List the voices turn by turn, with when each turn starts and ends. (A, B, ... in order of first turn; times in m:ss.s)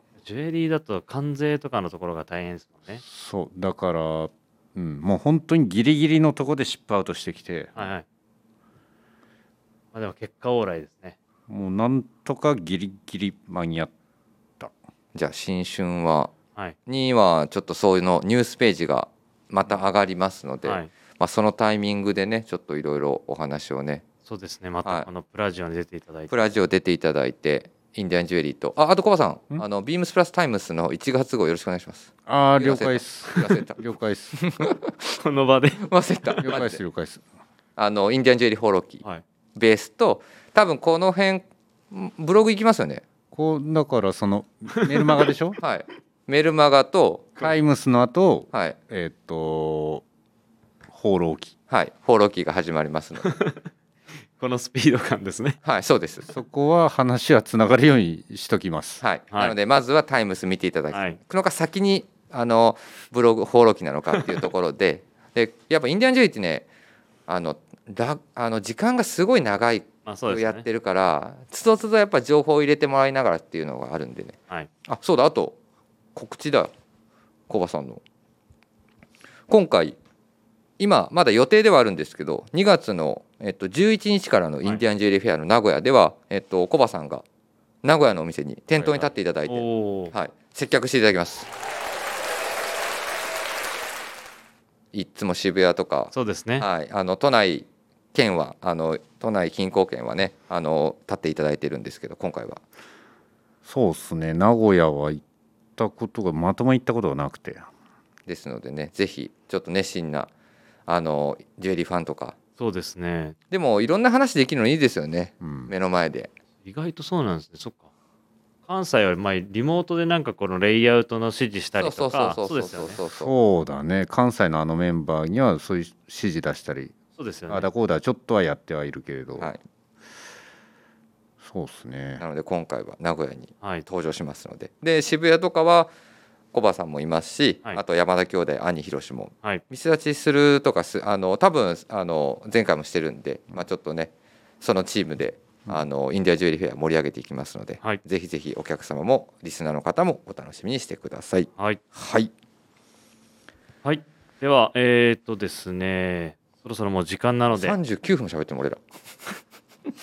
0:00.2-0:03.0 A
0:03.0-0:07.9 B
0:07.8-0:08.0 A
0:09.9-0:11.2 A
0:11.5-0:13.9 B
0:15.1-0:16.3 C
0:16.8-0:24.0 C
0:20.6-0:20.9 A
0:24.2-0:26.3 A
0:26.3-0:33.8 C
0:32.2-0:34.4 B
0:34.3-0:35.2 C
0:35.2-0:36.6 A
0:35.8-0:36.8 C
0:36.4-0:37.2 B
0:37.8-0:39.0 C
0:39.6-0:43.0 C
0:43.3-0:45.6 B
0:45.6-0:47.4 C
0:47.4-0:50.0 B
0:48.5-0:48.8 C
0:50.9-0:51.5 B
0:51.7-0:53.3 C
0:53.2-0:53.7 A
0:54.4-0:55.6 A
0:55.6-0:56.2 C
0:56.3-0:59.0 B
0:59.0-1:06.7 C
0:59.3-0:59.6 A
1:00.9-1:01.2 A
1:07.3-1:15.6 C
1:10.0-1:10.6 A
1:16.1-1:16.7 C
1:17.5-1:18.0 C
1:19.5-1:20.0 C
1:20.8-1:27.2 C
1:27.8-1:31.5 C
1:28.8-1:30.1 A
1:34.9-1:42.6 C
1:36.1-1:36.7 A
1:43.6-1:45.2 B
1:45.8-1:47.7 B
1:48.3-1:50.3 C
1:50.9-1:52.4 C
1:52.6-1:53.4 A
1:53.5-1:56.3 C
1:55.4-1:55.7 B
1:56.6-1:57.9 A
1:58.6-2:03.0 A
2:01.8-2:03.3 C
2:03.1-2:06.9 B
2:07.2-2:07.7 A
2:07.5-2:09.5 B
2:11.4-2:12.2 B
2:12.2-2:15.9 C
2:16.5-2:32.3 C
2:33.8-2:37.8 A
2:37.5-2:39.3 C